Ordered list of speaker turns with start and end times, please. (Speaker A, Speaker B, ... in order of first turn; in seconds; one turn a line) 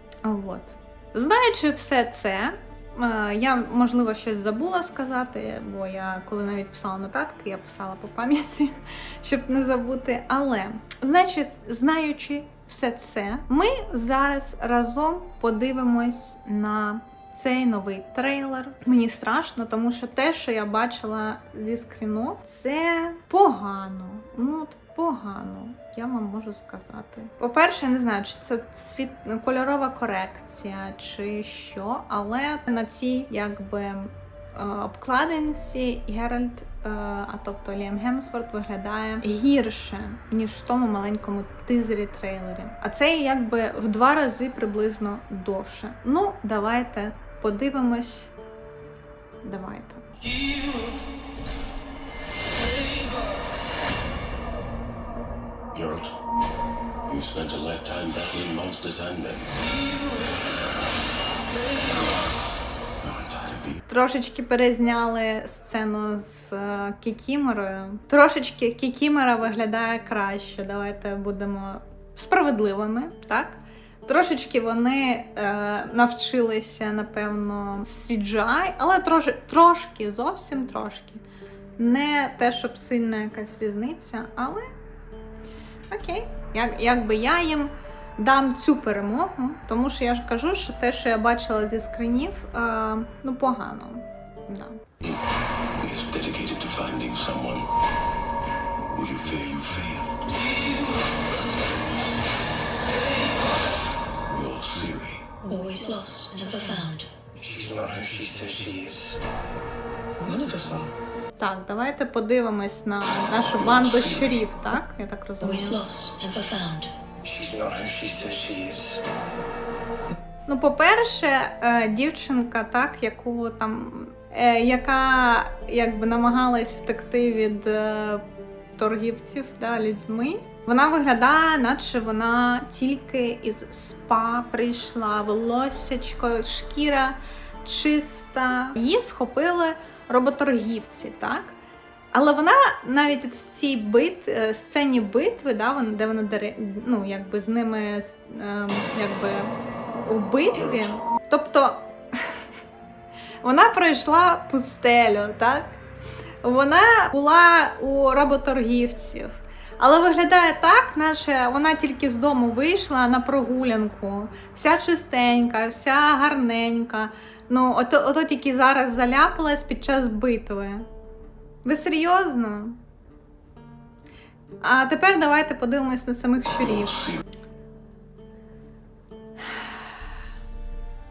Speaker A: 0.2-48.3
Speaker A: 49.4-50.0
Speaker B: 55.7-56.1
Speaker B: 57.1-59.5
Speaker B: 63.0-63.8
Speaker A: 63.9-81.2
Speaker A: 81.8-84.7
Speaker A: 85.9-94.8
Speaker B: 95.8-97.7
Speaker B: 98.9-100.2
Speaker B: 104.3-105.3
Speaker C: 105.5-107.1
Speaker B: 107.4-109.2
Speaker A: 111.4-115.8
Speaker B: 113.6-114.5
Speaker C: 115.4-116.9
Speaker B: 117.2-119.0
Speaker A: 120.5-128.2
Speaker A: 128.8-141.6
Speaker A: 142.1-152.4
Speaker B: 150.6-150.9
Speaker A: 153.4-155.8
Speaker A: 156.4-170.9
Speaker A: 171.7-172.8
Speaker A: 174.6-177.2